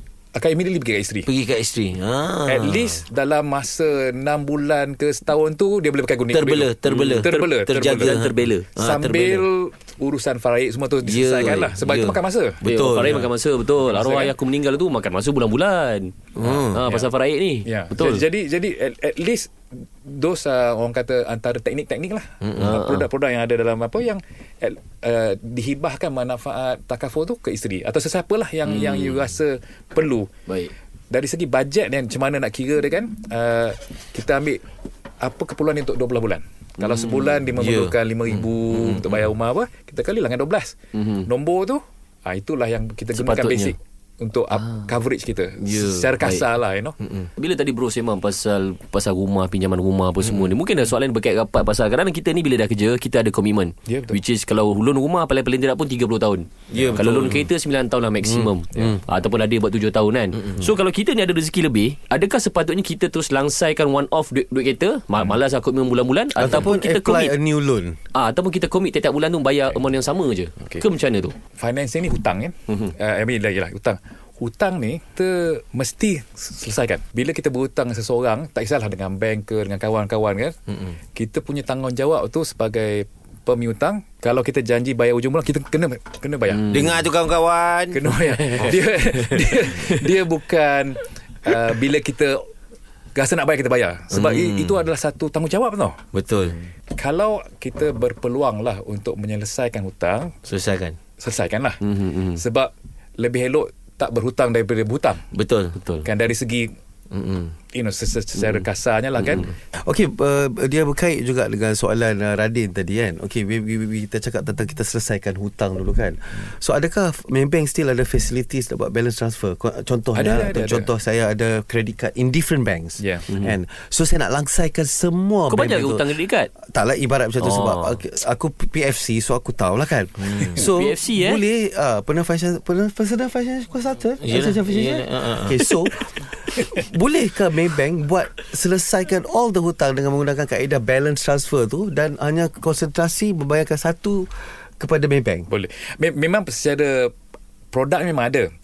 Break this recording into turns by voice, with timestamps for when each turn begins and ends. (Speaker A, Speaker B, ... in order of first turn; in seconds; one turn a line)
Speaker A: 0.3-1.3
Speaker B: 1.3-3.0
Speaker A: 2.5-8.2
Speaker B: 6.3-9.5
Speaker C: 6.8-8.7
Speaker A: 8.8-13.2
Speaker B: 11.1-13.2
Speaker C: 12.6-16.1
Speaker A: 13.9-14.3
Speaker B: 16.4-16.8
Speaker A: 16.4-17.1
Speaker C: 16.7-18.2
Speaker A: 17.6-19.5
Speaker A: 20.0-30.3
Speaker B: 22.4-22.7
Speaker C: 22.6-23.1
Speaker C: 28.7-29.3
Speaker C: 30.5-30.7
Speaker A: 31.1-34.6
Speaker A: 35.2-47.0
Speaker C: 36.8-37.4
Speaker B: 37.6-38.0
Speaker C: 40.9-41.3
Speaker C: 43.1-43.8
Speaker C: 44.6-44.9
Speaker C: 45.6-46.5
Speaker B: 47.0-47.3
Speaker C: 47.4-67.3
Speaker A: 53.9-54.2
Speaker B: 56.7-57.1
Speaker A: 56.7-57.4
Speaker D: 58.2-59.0
Speaker D: 66.4-68.0
Speaker C: 68.2-71.3
Speaker A: 71.5-80.6
Speaker A: 81.1-86.7
Speaker C: 86.5-87.1
Speaker B: 86.7-88.0
Speaker A: 87.9-92.5
Speaker B: 89.3-89.9
Speaker A: 93.2-96.0
Speaker B: 94.1-94.8
Speaker B: 96.1-96.6
Speaker A: 96.9-100.3
Speaker B: 100.5-101.0
Speaker A: 101.2-101.8
Speaker C: 101.8-102.4
Speaker A: 102.3-105.2
Speaker B: 105.3-105.8
Speaker C: 105.8-106.1
Speaker A: 106.0-106.7
Speaker B: 107.1-107.5
Speaker A: 107.7-109.5
Speaker C: 109.2-109.5
Speaker D: 109.8-145.5
Speaker A: 120.1-120.9
Speaker A: 123.0-123.3
Speaker C: 123.3-123.5
Speaker C: 125.5-126.5
Speaker C: 127.4-128.0
Speaker B: 130.2-130.7
Speaker C: 130.6-131.4
Speaker B: 134.2-135.6
Speaker C: 135.7-136.1
Speaker A: 145.5-147.1
Speaker A: 147.7-148.5